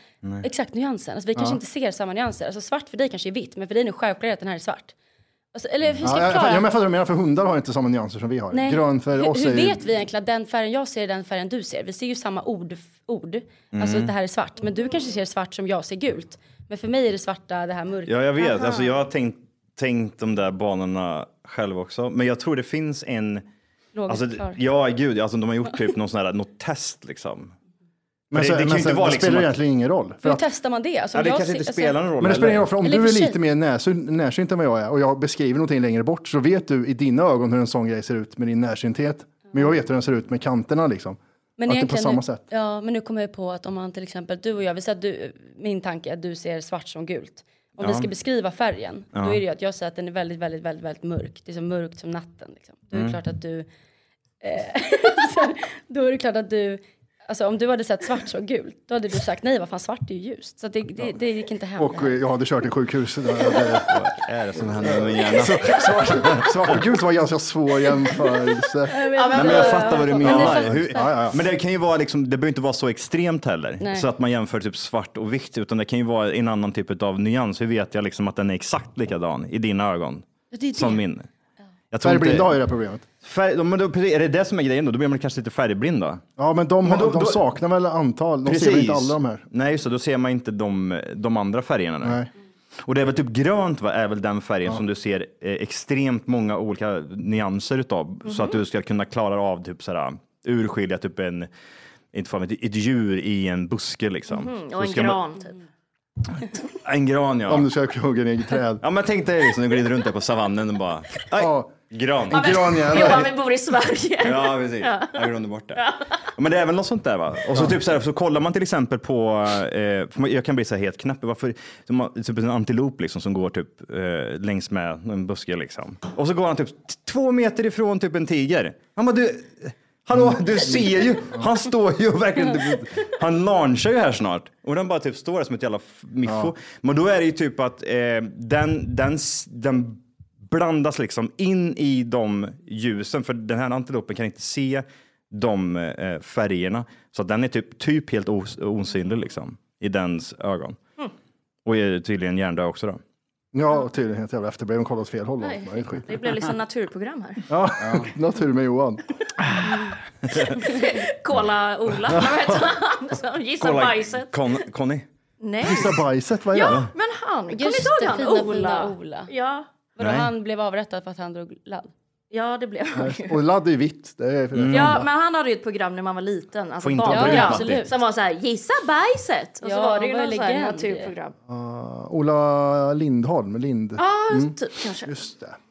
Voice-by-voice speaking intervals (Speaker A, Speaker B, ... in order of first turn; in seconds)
Speaker A: 0.4-4.9, 5.5-6.7, 8.5-18.6, 23.9-24.6, 30.2-32.0, 32.8-33.4, 41.6-53.7, 54.4-62.2, 68.9-71.2, 73.8-74.1, 80.5-81.0, 167.5-169.3, 170.0-171.9, 177.1-178.0, 179.6-181.1
Speaker B: 6.0-9.8, 28.3-30.4, 32.2-42.4, 61.8-64.0, 64.6-68.9, 70.3-71.4, 82.0-83.0, 86.4-89.5, 92.0-92.3, 107.5-108.8, 111.4-111.8, 112.3-113.3, 130.1-131.5, 136.2-136.5, 153.5-156.2, 157.5-159.0, 162.2-162.6, 165.6-166.8, 172.9-175.1, 181.5-185.6
Speaker C: 13.8-14.1, 18.1-23.4, 24.1-27.5, 28.3-29.5, 31.1-32.7, 47.8-48.1, 49.1-49.4, 52.9-53.2, 63.9-66.5, 69.3-81.3, 81.9-82.5, 83.2-86.2, 86.8-87.4, 88.5-92.2, 92.8-101.5, 102.1-105.2, 106.8-107.7, 108.8-113.2, 114.2-150.8, 151.6-153.0, 160.3-160.5, 163.6-165.1, 170.0-170.3, 174.5-175.0, 176.8-177.9
Speaker D: 18.5-18.9, 69.1-70.5, 98.2-98.6, 104.3-105.5, 112.3-116.1, 155.4-157.4, 160.5-164.6, 165.4-169.7, 172.3-173.4, 174.7-181.3, 184.0-185.1